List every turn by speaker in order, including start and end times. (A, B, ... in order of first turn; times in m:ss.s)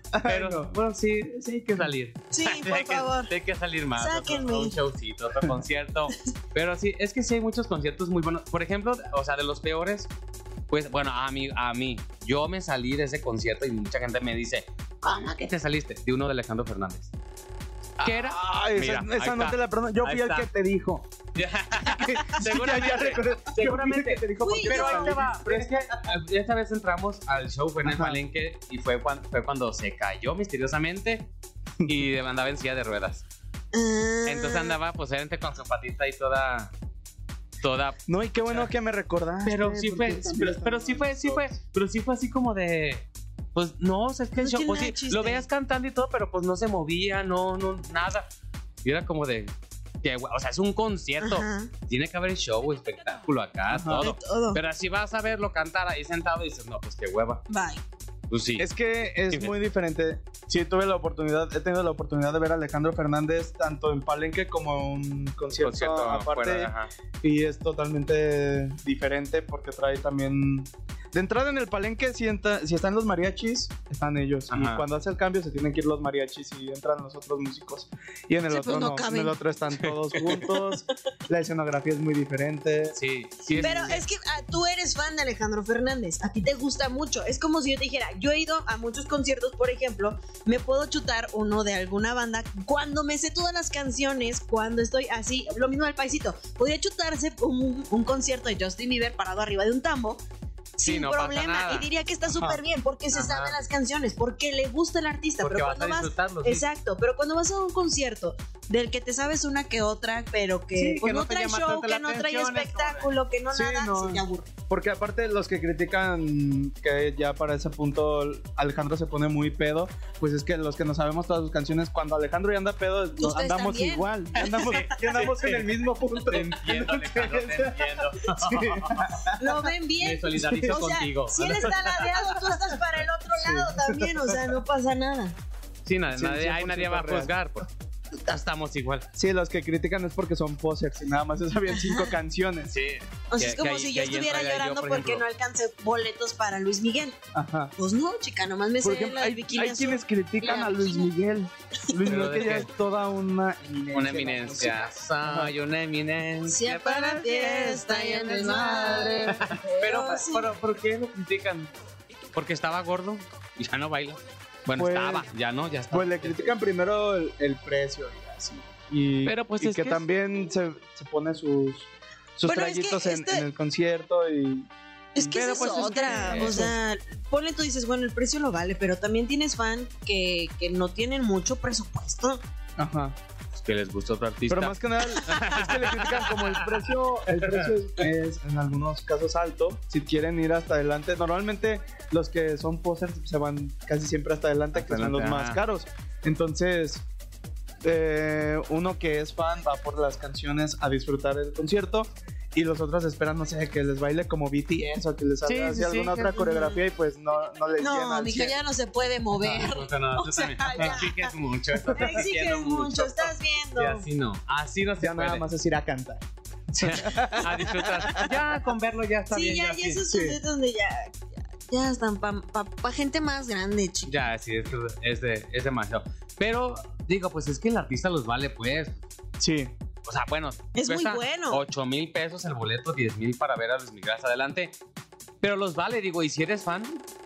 0:00.1-0:00.7 A
0:00.2-0:10.1 B
0:01.6-0:01.9 A
0:02.3-0:03.3 C
0:04.0-0:04.8 C
0:10.7-0:17.1 B
0:18.0-0:20.5 B
0:18.0-0:21.1 A
0:21.4-0:31.3 B
0:21.9-0:26.0 A
0:24.4-0:25.2 C
0:27.8-0:28.2 A
0:31.8-0:33.2 B
0:33.7-0:34.8 C
0:34.3-0:36.7 B
0:37.6-0:38.7 B
0:38.1-0:41.4 A
0:39.4-0:48.3 B
0:44.4-0:45.4 C
0:48.8-0:57.4 B
0:51.2-0:51.7 C
0:53.7-0:54.1 A
0:54.0-0:54.6 C
0:57.5-0:57.8 C
0:58.3-0:58.7 B
0:58.6-1:24.0 A
0:59.3-0:59.6 B
1:05.6-1:06.9 B
1:14.5-1:14.8 B
1:18.5-1:19.4 C
1:19.8-1:20.5 B
1:23.0-1:24.0 B
1:23.6-1:40.2 C
1:40.8-1:54.5 C
1:40.8-1:41.9 B
1:42.3-1:42.6 A
1:43.1-1:43.6 B
1:45.4-1:46.6 B
1:50.8-1:53.1 B
1:53.5-2:09.6 A
2:03.2-2:04.9 C
2:04.4-2:09.2 B
2:09.4-2:15.4 C
2:10.0-2:12.6 B
2:10.4-2:10.8 A
2:13.3-2:14.6 A
2:15.8-2:19.1 B
2:16.1-2:17.3 A
2:19.2-2:22.8 A
2:21.7-2:22.2 C
2:22.7-2:25.2 B
2:23.3-2:27.2 C
2:27.3-2:27.7 A
2:27.8-2:31.1 C
2:28.8-2:35.5 A
2:32.0-2:32.7 B
2:33.9-2:38.3 B
2:36.5-2:40.5 C
2:37.3-2:39.4 A
2:39.4-2:41.7 B
2:42.3-2:46.6 B
2:44.8-2:45.3 A
2:45.9-2:54.7 A
2:49.2-2:50.0 B
2:52.5-2:53.5 C
2:55.2-3:02.4 C
2:55.2-2:56.7 B
2:56.0-2:56.8 A
3:02.8-3:03.2 A
3:03.5-3:07.7 B
3:04.5-3:17.1 A
3:14.8-3:15.6 B
3:17.8-3:28.6 A
3:25.4-3:26.5 B
3:26.4-3:26.8 C
3:27.8-3:31.3 C
3:29.4-3:35.5 B
3:31.9-3:34.0 C
3:35.0-3:38.4 A
3:36.8-3:40.0 B
3:39.3-3:44.2 C
3:40.1-3:40.4 A
3:44.1-3:49.0 B
3:49.4-3:49.7 A
3:50.0-3:54.8 B
3:50.8-3:51.6 C
3:55.4-3:57.0 B